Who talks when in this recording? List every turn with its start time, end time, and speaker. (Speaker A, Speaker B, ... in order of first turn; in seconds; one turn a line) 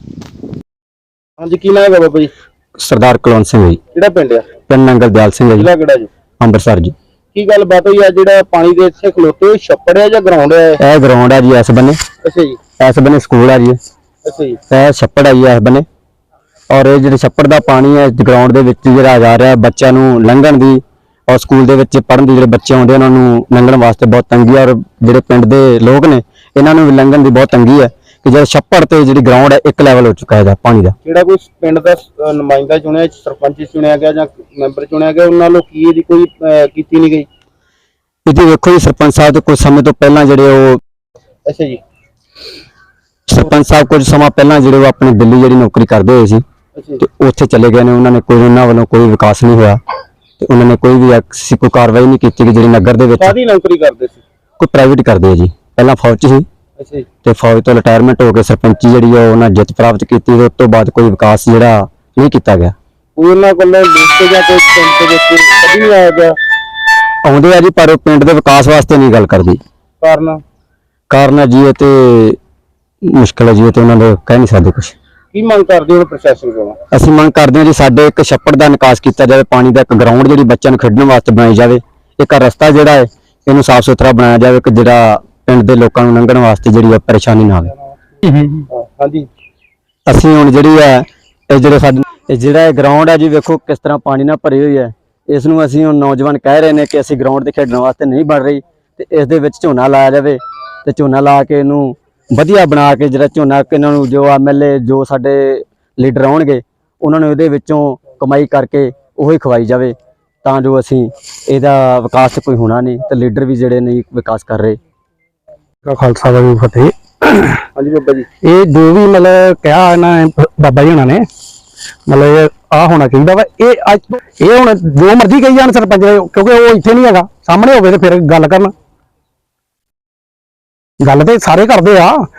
Speaker A: 1.4-2.3
Speaker B: 2.8-3.8
Speaker A: 3.9-4.5
Speaker B: 4.7-5.7
Speaker A: 5.6-6.1
Speaker B: 6.4-6.9
Speaker A: 7.3-10.8
Speaker B: 10.8-12.0
Speaker A: 12.2-12.6
Speaker B: 12.8-13.8
Speaker A: 14.2-14.6
Speaker B: 14.7-15.9
Speaker B: 16.7-31.0
Speaker A: 31.0-37.3
Speaker B: 38.3-40.8
Speaker A: 41.5-41.8
Speaker B: 43.3-46.4
Speaker A: 46.8-47.0
Speaker B: 47.0-49.8
Speaker B: 50.4-53.4
Speaker A: 53.2-54.2
Speaker B: 54.6-56.5
Speaker A: 56.8-57.1
Speaker B: 57.2-62.7
Speaker A: 63.2-66.4
Speaker B: 67.2-69.6
Speaker A: 70.0-70.4
Speaker B: 71.1-72.4
Speaker B: 73.0-74.9
Speaker A: 75.3-76.8
Speaker B: 76.9-87.7
Speaker A: 88.7-89.3
Speaker B: 90.1-114.8
Speaker C: 115.9-117.6
Speaker A: 117.8-118.3
Speaker C: 118.4-121.2
Speaker C: 122.1-128.7
Speaker C: 131.0-132.2